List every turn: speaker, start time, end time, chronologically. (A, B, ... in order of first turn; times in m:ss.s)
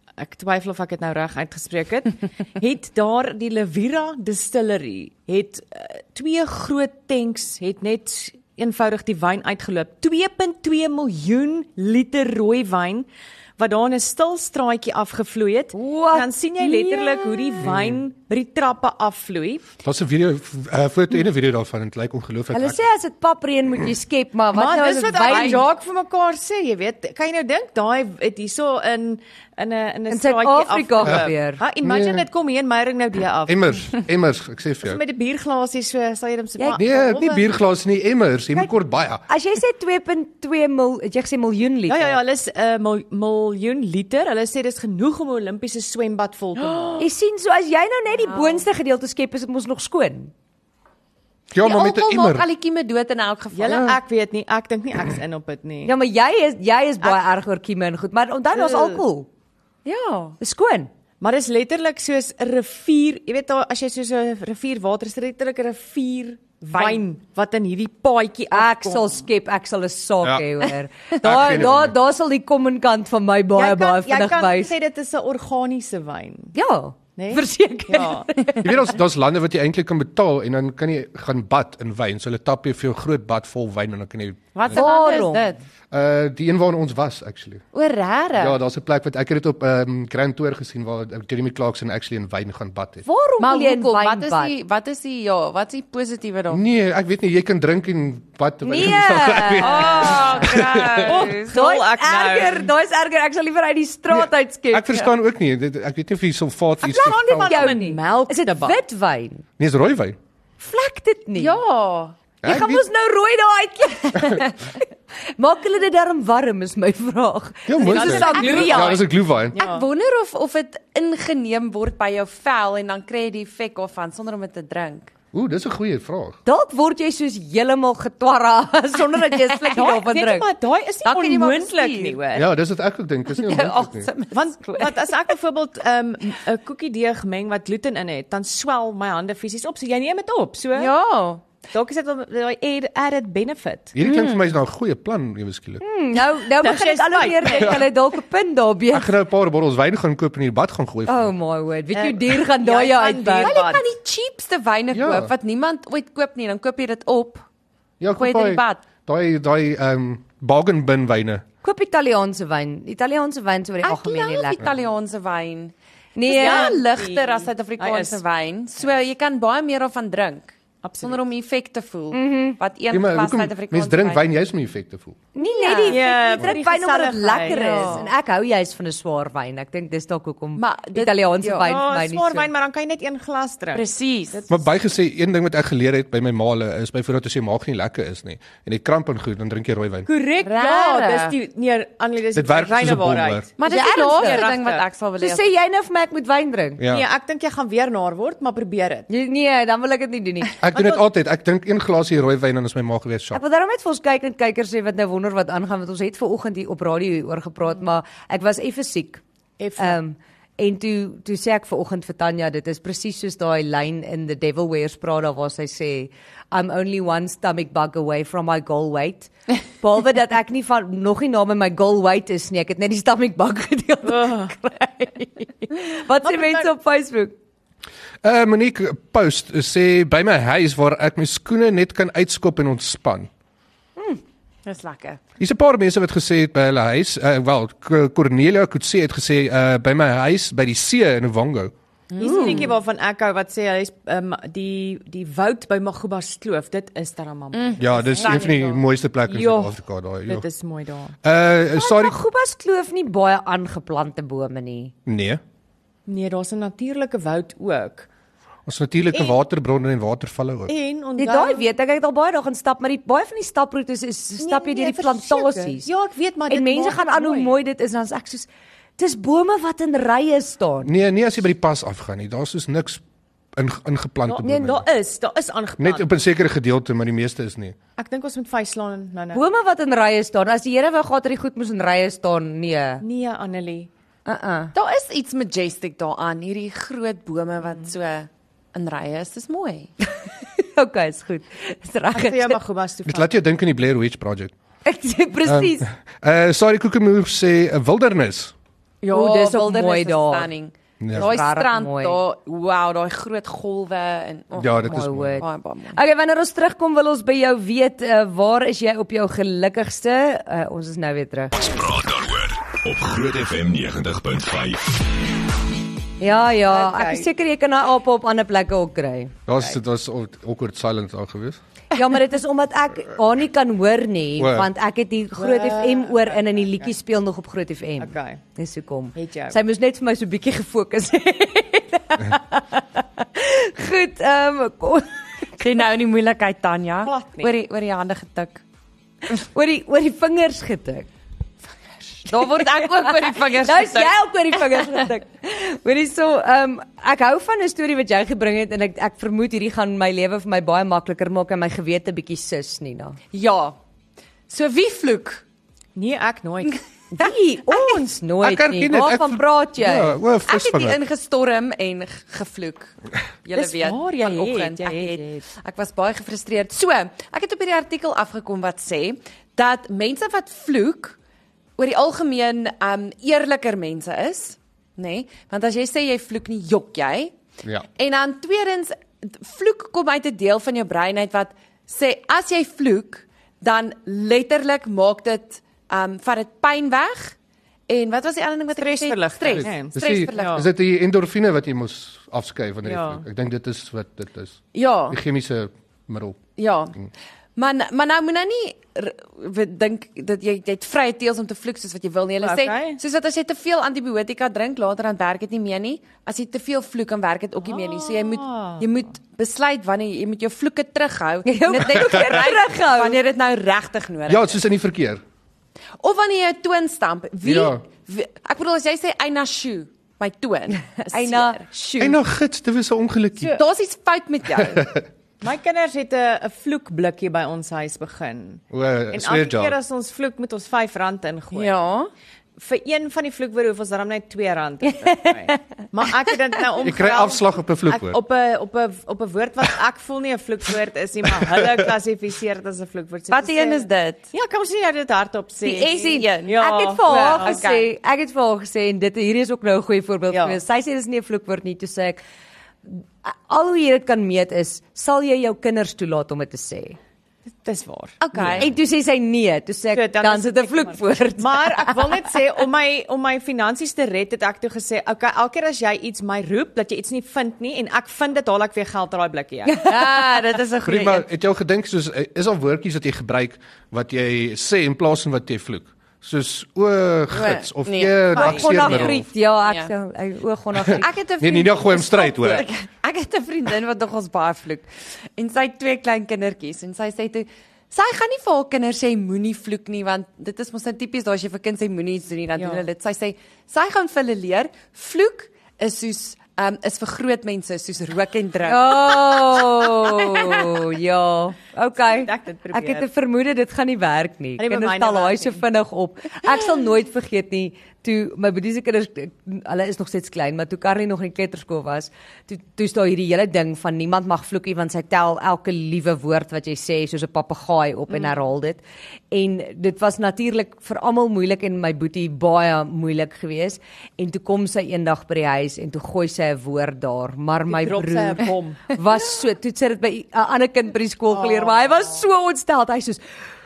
0:00.2-0:13.1 A
0:13.6-0:19.7 A
0:15.7-0:17.6 B
0:17.6-0:18.0 C
0:19.8-0:22.8 C
0:22.5-0:25.6 B
0:24.5-0:33.7 A
0:25.2-0:25.6 D
0:30.1-0:31.6 B
0:31.0-0:31.3 C
0:31.8-0:32.2 C
0:33.4-0:35.0 C
0:34.8-0:37.4 A
0:36.7-0:39.2 C
0:39.3-0:42.2 B
0:41.9-0:47.0 A
0:46.6-0:47.0 D
0:47.0-0:50.3 B
0:48.2-0:48.6 D
0:51.5-0:52.4 C
0:51.6-0:54.0 D
0:53.5-0:55.9 A
0:55.8-0:59.3 B
0:58.5-0:59.0 A
0:59.8-1:00.4 D
1:00.4-1:00.9 B
1:01.2-1:09.2 A
1:06.7-1:07.0 D
1:08.5-1:14.7 B
1:10.2-1:10.5 C
1:11.2-1:12.0 C
1:13.6-1:16.5 A
1:16.5-1:18.7 B
1:17.2-1:18.3 A
1:18.6-1:24.8 C
1:24.5-1:25.6 D
1:24.7-1:25.5 B
1:25.9-1:27.6 C
1:27.7-1:28.6 D
1:28.4-1:33.0 C
1:33.0-1:34.6 B
1:33.3-1:36.6 D
1:36.5-1:41.2 C
1:38.6-1:40.4 B
1:39.6-1:41.5 D
1:39.9-1:40.3 A
1:41.0-1:42.7 A
1:41.5-1:45.0 B
1:44.1-1:47.8 C
1:46.8-1:49.4 B
1:46.8-1:48.8 A
1:49.6-1:50.2 C
1:50.6-1:51.6 B
1:51.3-1:52.2 D
1:52.4-1:52.8 C
1:52.4-1:54.8 B
1:55.4-1:59.0 B
1:57.7-1:59.6 C
1:57.8-1:59.9 A
1:58.4-1:58.7 D
1:59.6-2:05.1 D
2:05.3-2:06.4 C
2:06.4-2:10.5 B
2:09.7-2:12.5 A
2:11.0-2:12.2 D
2:12.3-2:14.1 C
2:13.3-2:15.1 D
2:14.3-2:20.9 A
2:20.7-2:21.4 D
2:21.7-2:24.0 A
2:23.9-2:25.8 C
2:24.1-2:24.4 D
2:25.8-2:29.1 B
2:26.6-2:27.9 A
2:28.9-2:31.3 C
2:31.1-2:33.6 B
2:31.9-2:33.9 A
2:33.4-2:37.4 D
2:34.9-2:35.3 C
2:38.0-2:41.4 C
2:38.1-2:38.9 D
2:41.6-2:44.6 B
2:43.8-2:45.7 D
2:46.2-2:46.8 B
2:46.3-2:54.2 D
2:46.3-2:48.2 A
2:50.8-2:51.3 A
2:52.1-2:52.6 B
2:52.9-2:55.2 C
2:55.3-3:02.5 B
2:55.4-2:56.1 D
2:55.9-2:57.9 A
2:57.5-2:58.1 D
3:00.6-3:01.7 D
3:01.6-3:04.6 A
3:03.7-3:04.4 D
3:04.5-3:10.1 C
3:10.0-3:14.9 A
3:10.4-3:11.3 D
3:12.3-3:13.5 C
3:13.6-3:15.5 D
3:13.6-3:14.5 B
3:15.2-3:16.8 B
3:16.8-3:17.1 C
3:16.9-3:19.1 A
3:19.1-3:20.6 B
3:20.6-3:23.4 C
3:20.7-3:21.0 A
3:23.3-3:29.2 B
3:29.6-3:30.0 A
3:29.8-3:47.3 B
3:44.0-3:44.5 A
3:46.2-3:46.7 A
3:48.2-3:53.3 C
3:54.6-3:55.2 D
3:55.4-4:01.7 C
4:02.1-4:02.7 D
4:02.2-4:11.2 A
4:07.5-4:08.8 D
4:07.8-4:10.4 C
4:11.2-4:12.2 C
4:11.7-4:14.9 B
4:15.0-4:15.4 C
4:16.1-4:18.1 A
4:18.6-4:20.7 C
4:19.1-4:19.4 A
4:20.7-4:21.6 A
4:21.2-4:25.9 B
4:24.4-4:27.5 A
4:26.5-4:28.5 B
4:29.0-4:30.9 B
4:30.8-4:33.0 C
4:33.5-4:34.8 C
4:34.3-4:36.1 A
4:35.8-4:37.8 C
4:38.0-4:39.4 A
4:39.3-4:43.0 B
4:43.0-4:43.9 A
4:44.2-4:44.7 B
4:44.7-4:49.9 D
4:50.6-4:52.6 B
4:52.1-4:53.4 A
4:53.0-4:54.5 C
4:54.8-4:55.9 B
4:55.4-4:58.5 C
4:59.0-5:06.0 D
4:59.1-5:00.5 B
5:01.0-5:01.3 C
5:01.1-5:02.2 B
5:04.6-5:05.4 C
5:04.8-5:11.5 B
5:11.6-5:15.0 E
5:16.2-5:19.3 B
5:16.7-5:17.3 A
5:19.5-5:21.6 C
5:21.9-5:35.1 B
5:24.4-5:24.7 C
5:25.4-5:26.9 A
5:28.0-5:28.4 A
5:29.2-5:29.6 A
5:35.6-5:38.6 D
5:37.0-5:37.5 A
5:39.3-5:41.1 B
5:42.1-5:44.9 D
5:42.4-5:53.2 B
5:53.3-5:53.8 D
5:54.5-5:55.4 D
5:55.9-5:56.8 A
5:57.1-6:00.2 B
5:58.4-6:01.0 C
6:00.4-6:11.2 D
6:03.5-6:05.4 A
6:11.8-6:17.3 D
6:18.0-6:27.3 D
6:27.9-6:30.6 D
6:28.7-6:30.7 A
6:29.5-6:37.1 C
6:32.8-6:33.2 A
6:34.7-6:35.2 D
6:36.6-6:37.0 D
6:37.6-6:54.6 D
6:42.4-6:43.0 A
6:47.6-6:48.9 A
6:51.4-6:53.2 B
6:54.3-6:55.2 C
6:56.0-7:01.7 D
6:57.4-6:57.8 C
7:01.0-7:02.2 B
7:02.0-7:03.6 C
7:03.5-7:04.9 D
7:04.6-7:05.0 C
7:05.4-7:11.8 A
7:08.7-7:09.8 C
7:11.5-7:12.1 D
7:12.6-7:27.7 A
7:16.8-7:18.2 C
7:21.5-7:21.8 C
7:23.3-7:24.2 D
7:25.6-7:27.8 D
7:26.6-7:32.2 B
7:30.3-7:30.6 A
7:32.9-7:37.0 B
7:37.6-7:38.7 A
7:38.2-7:38.7 D
7:38.6-7:42.1 B
7:39.9-7:49.9 A
7:49.8-7:51.2 D
7:50.8-7:59.2 C
7:57.3-7:59.9 D
7:58.3-8:01.1 B
8:00.9-8:02.7 C
8:01.0-8:19.9 D
8:12.6-8:12.8 A
8:18.6-8:53.2 B
8:22.0-8:23.1 A
8:24.6-8:25.6 A
8:47.7-8:48.8 A
8:51.3-8:52.2 A